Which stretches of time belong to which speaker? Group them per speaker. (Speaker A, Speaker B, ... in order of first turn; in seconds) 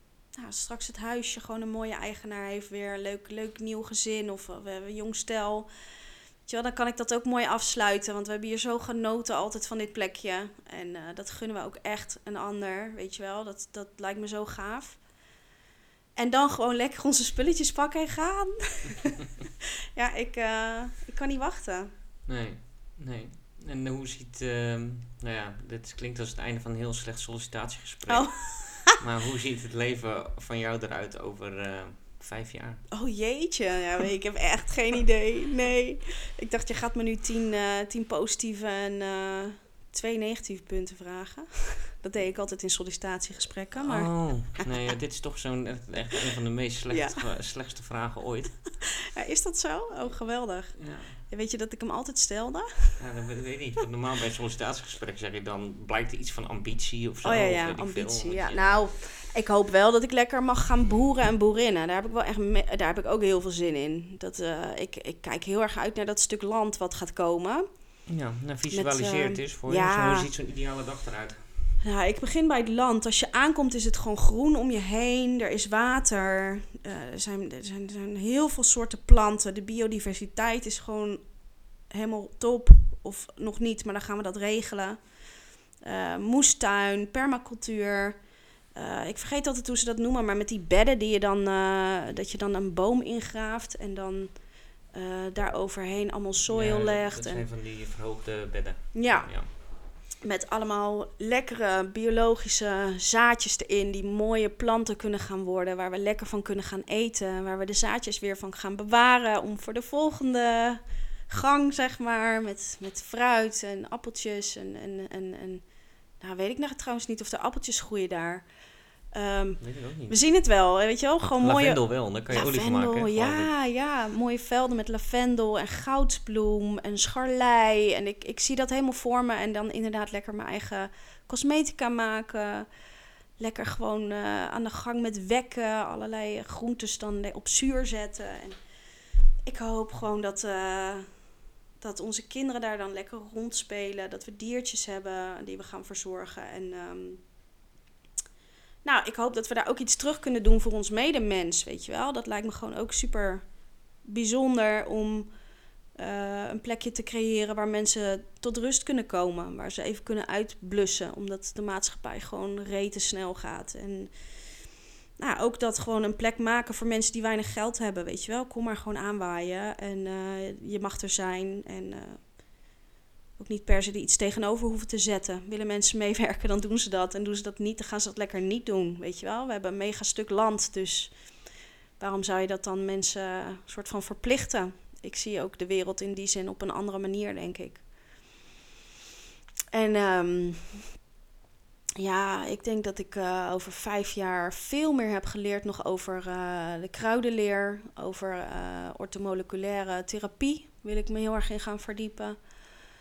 Speaker A: 0.3-5.7, 6.5-15.1, 16.2-19.1, 19.9-21.9, 28.1-29.0, 32.9-44.7, 46.9-47.3, 49.1-53.0, 57.2-68.0, 68.7-70.3, 71.8-81.2, 81.8-85.2, 85.7-97.5, 98.9-132.7, 133.4-138.7, 139.4-147.3, 148.8-153.5, 154.0-155.3, 155.9-172.4, 173.4-187.9, 189.7-190.9, 192.0-202.5
Speaker B: 22.3-32.9, 43.9-48.7, 50.8-51.2, 53.0-58.8, 68.1-71.5, 96.5-99.5, 119.6-120.2, 121.4-123.5